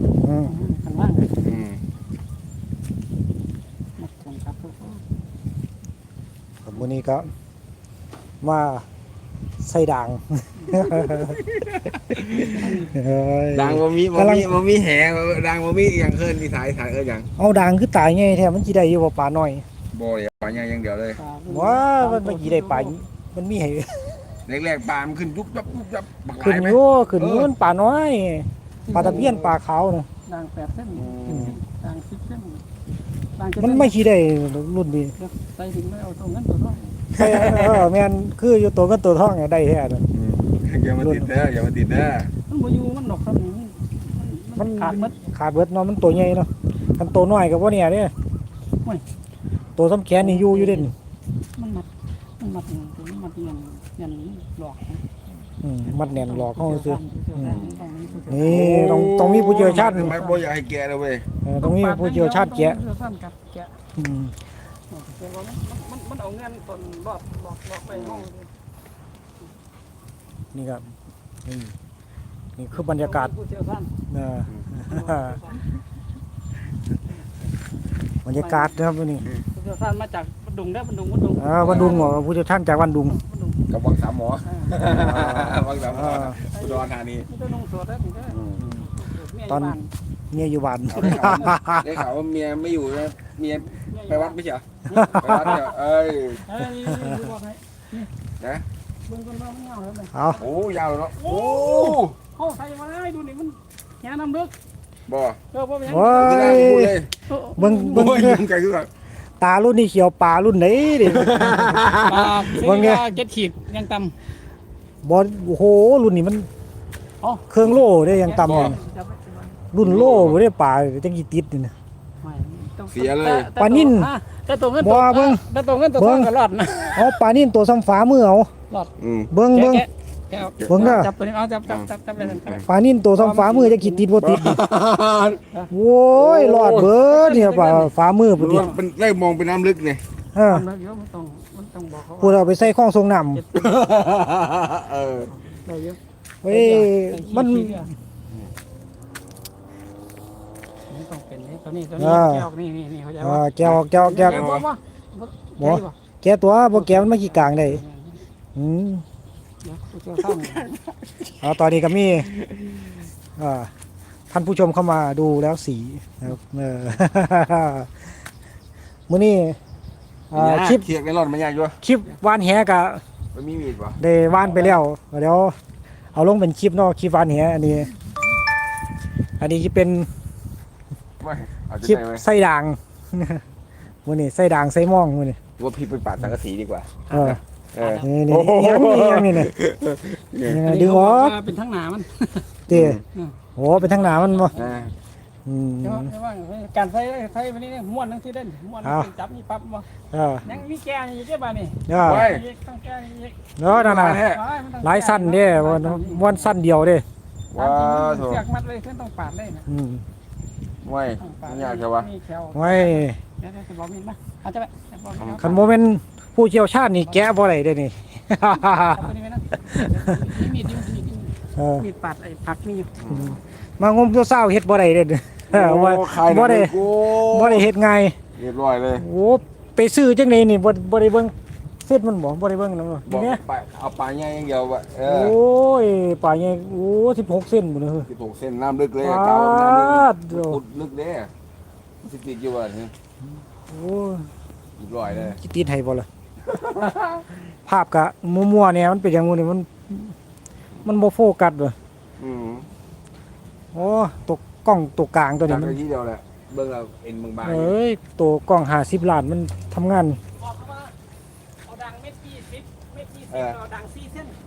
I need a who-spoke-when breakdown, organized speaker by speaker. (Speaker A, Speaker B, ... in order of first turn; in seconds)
Speaker A: 0.2-0.5, 6.6-7.3, 8.4-8.9, 9.6-11.4, 12.5-14.6, 17.4-19.6, 21.5-24.2, 26.4-30.1, 31.3-31.6, 33.6-35.1, 37.1-40.0, 41.0-41.3, 44.6-48.1, 49.8-50.9, 55.6-57.6, 58.3-60.2, 61.4-62.8, 64.0-64.3, 70.5-70.9, 71.5-71.8, 72.6-73.3, 74.1-75.4, 78.2-79.3, 81.4-83.2, 84.9-86.4, 89.5-89.8, 90.3-92.0, 94.9-95.6, 96.9-97.3, 100.1-100.4, 105.9-107.0, 107.6-108.5, 109.4-111.9, 112.5-113.1, 115.0-116.5, 117.5-118.8, 119.7-121.7, 123.6-124.1, 124.8-125.4, 126.0-126.3, 126.9-128.5, 129.3-129.9, 130.7-131.1, 132.7-134.6, 135.7-138.8, 140.3-140.7, 142.2-143.4, 146.4-147.9, 152.0-152.5, 153.2-154.5, 155.6-157.8, 158.6-159.1, 161.4-162.3, 163.4-163.7, 164.3-167.9, 169.1-169.6, 170.3-170.9, 171.8-173.0, 174.0-175.6, 176.1-177.9, 179.4-180.1, 181.8-183.4, 184.1-185.4, 187.1-187.4, 188.0-189.5, 190.4-191.4, 192.7-193.0, 193.6-194.5, 195.5-196.1, 198.8-199.1, 200.1-200.4, 201.9-202.3, 203.6-204.3, 204.8-207.1, 209.7-210.0, 212.6-213.2, 215.4-219.1, 219.7-220.5, 221.6-221.9, 223.1-228.2, 229.0-233.4, 235.1-238.1, 239.0-240.6, 243.7-244.3, 245.1-246.1, 247.7-250.2, 250.8-251.8, 253.7-255.8, 257.4-260.2
Speaker B: 0.4-1.5, 4.0-5.0, 10.6-10.9, 12.6-12.9, 21.2-22.9, 28.9-29.5, 30.3-32.6, 33.4-34.0, 35.2-36.8, 42.5-45.2, 50.2-50.9, 51.6-51.9, 52.4-55.0, 55.9-58.7, 59.5-60.4, 61.6-63.7, 64.9-68.5, 72.7-73.9, 74.9-75.6, 78.4-78.8, 79.5-82.2, 83.1-83.6, 84.4-84.8, 86.5-89.9, 93.7-95.7, 96.4-98.1, 99.1-100.4, 101.2-104.5, 105.5-106.6, 107.3-108.4, 111.9-114.1, 117.2-117.5, 118.1-119.6, 122.2-127.1, 129.5-134.1, 137.1-137.9, 140.4-142.7, 145.5-147.9, 150.9-155.9, 156.7-158.2, 159.6-160.7, 174.4-174.8, 187.1-188.1, 190.6-192.5, 193.1-194.7, 195.8-199.9, 200.4-203.4, 204.0-206.5, 207.6-209.7, 211.2-215.5, 218.7-222.9, 260.4-260.9, 261.6-264.4
Speaker C: 1.4-1.8, 10.8-12.8, 13.5-17.3, 19.9-21.2, 24.5-27.5, 29.0-29.4, 30.9-31.6, 37.1-37.9, 40.1-42.3, 58.3-61.3, 67.9-68.3, 81.6-82.2, 83.7-87.3, 88.3-88.9, 90.9-94.7, 95.2-96.5, 98.4-98.7, 100.4-102.2, 105.1-105.4, 106.2-107.1, 107.9-108.9, 111.1-112.4, 118.4-118.8, 119.8-120.4, 122.9-123.5, 129.0-129.3, 130.6-131.0, 131.7-132.7, 134.2-135.4, 136.2-136.9, 138.4-140.0, 143.5-145.4, 153.6-154.7, 162.4-162.7, 170.3-171.8, 173.3-174.0, 181.2-182.2, 185.6-190.6, 192.7-193.0, 194.6-194.9, 202.0-202.4, 203.7-204.4, 207.5-208.4, 210.8-212.1, 215.2-215.7, 223.0-223.4, 225.5-227.7, 228.4-229.1, 233.1-235.4, 238.1-241.3, 242.0-242.9, 244.8-245.4, 246.5-247.0, 252.2-252.7, 255.5-257.7, 263.3-263.6